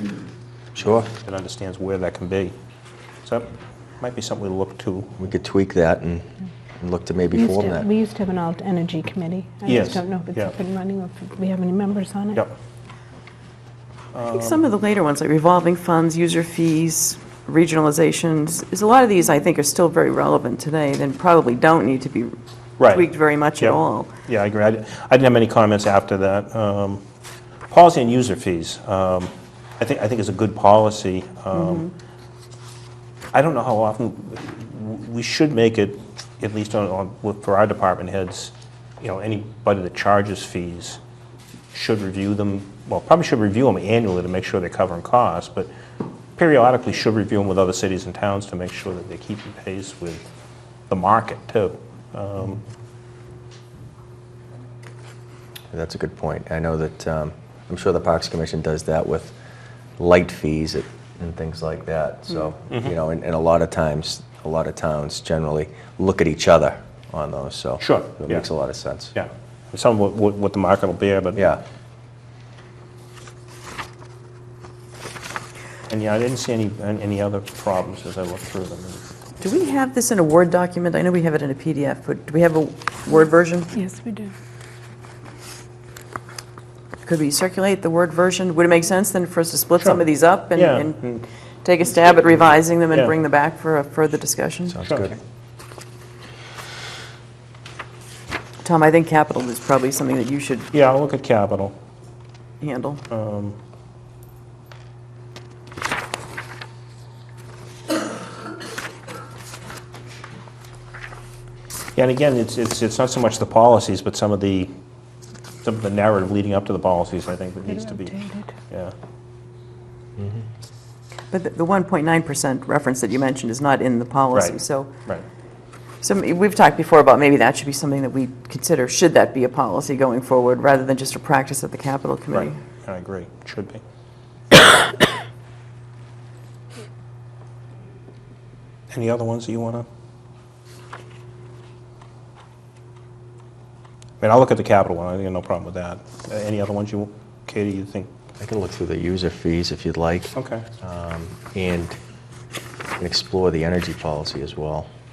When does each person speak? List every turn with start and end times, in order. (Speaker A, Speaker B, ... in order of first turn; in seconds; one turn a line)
Speaker A: 0.7-1.1
Speaker B: 1.2-2.5
Speaker B: 3.2-5.1
Speaker A: 5.2-6.2
Speaker A: 6.8-7.9
Speaker C: 7.3-12.4
Speaker B: 9.7-10.5
Speaker B: 14.1-14.6
Speaker D: 14.3-24.1
Speaker B: 22.8-23.1
Speaker B: 23.6-27.0
Speaker B: 27.7-31.9
Speaker D: 31.5-31.9
Speaker B: 33.3-41.0
Speaker B: 41.7-45.7
Speaker B: 46.4-50.3
Speaker B: 50.9-52.6
Speaker A: 55.7-59.3
Speaker A: 60.0-69.1
Speaker B: 67.8-68.5
Speaker B: 69.1-71.6
Speaker B: 75.9-79.0
Speaker D: 79.4-83.8
Speaker C: 83.7-84.3
Speaker D: 87.0-94.8
Speaker B: 90.5-91.2
Speaker A: 94.7-95.2
Speaker B: 94.8-95.1
Speaker D: 98.6-100.7
Speaker B: 100.7-101.8
Speaker D: 102.6-103.0
Speaker B: 103.1-103.5
Speaker B: 112.0-114.7
Speaker B: 115.6-118.9
Speaker C: 117.9-118.5
Speaker D: 121.3-124.9
Speaker B: 124.3-125.2
Speaker D: 126.0-132.6
Speaker B: 132.3-133.8
Speaker B: 138.9-139.9
Speaker B: 144.2-148.1
Speaker A: 148.4-151.9
Speaker B: 150.3-150.7
Speaker A: 153.0-154.9